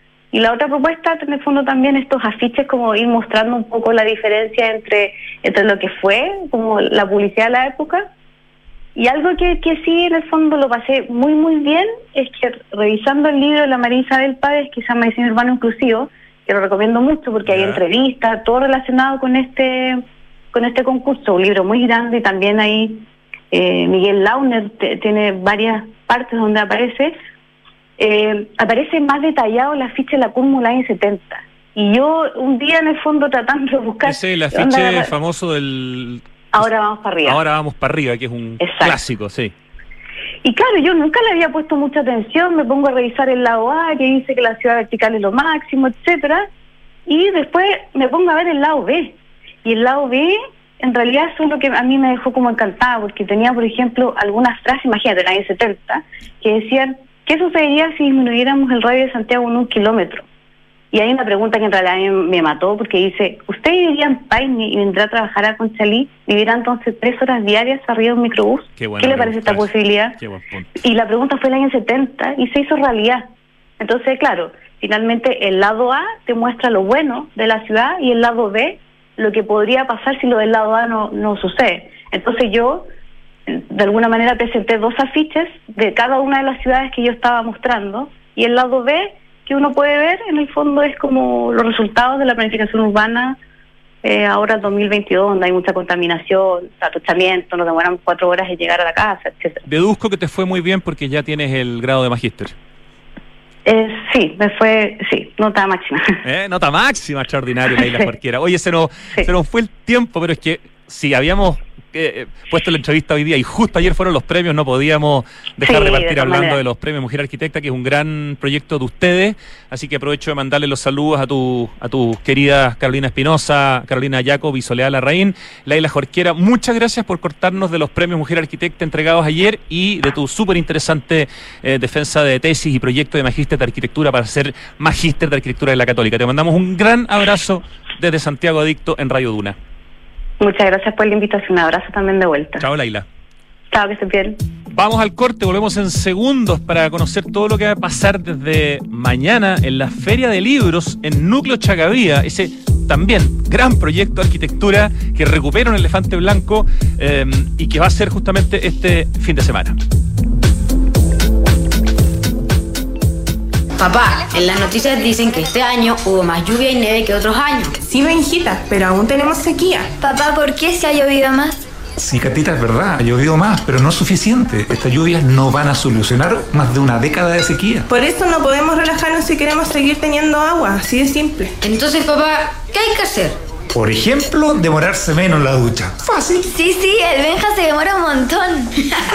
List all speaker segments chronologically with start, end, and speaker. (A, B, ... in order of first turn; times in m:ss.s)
0:00.3-0:08.1 A
0:09.0-0:27.1 A
0:17.5-0:17.8 B
0:28.0-0:35.1 A
0:34.0-0:36.7 B
0:36.5-0:37.4 A
0:37.2-0:39.5 B
0:38.6-0:39.0 A
0:40.4-0:46.5 A
0:47.1-1:00.2 A
1:00.9-1:10.2 A
1:08.8-1:09.7 B
1:10.2-1:10.7 B
1:10.8-1:13.3 A
1:13.8-1:22.9 A
1:23.5-1:33.4 A
1:34.0-1:39.6 A
1:39.6-1:42.5 B
1:43.6-1:46.2 A
1:46.2-2:19.6 B
1:47.8-1:48.0 A
1:55.6-1:56.6 A
2:20.4-2:22.6 A
2:22.6-2:23.1 B
2:23.7-2:24.4 A
2:24.7-2:39.8 B
2:43.8-2:47.8 C
2:47.8-2:49.9 D
2:50.0-2:51.6 E
2:52.0-2:57.9 F
2:57.9-3:01.6 D
3:01.6-3:03.4 C
3:03.7-3:06.4 F
3:06.4-3:08.8 E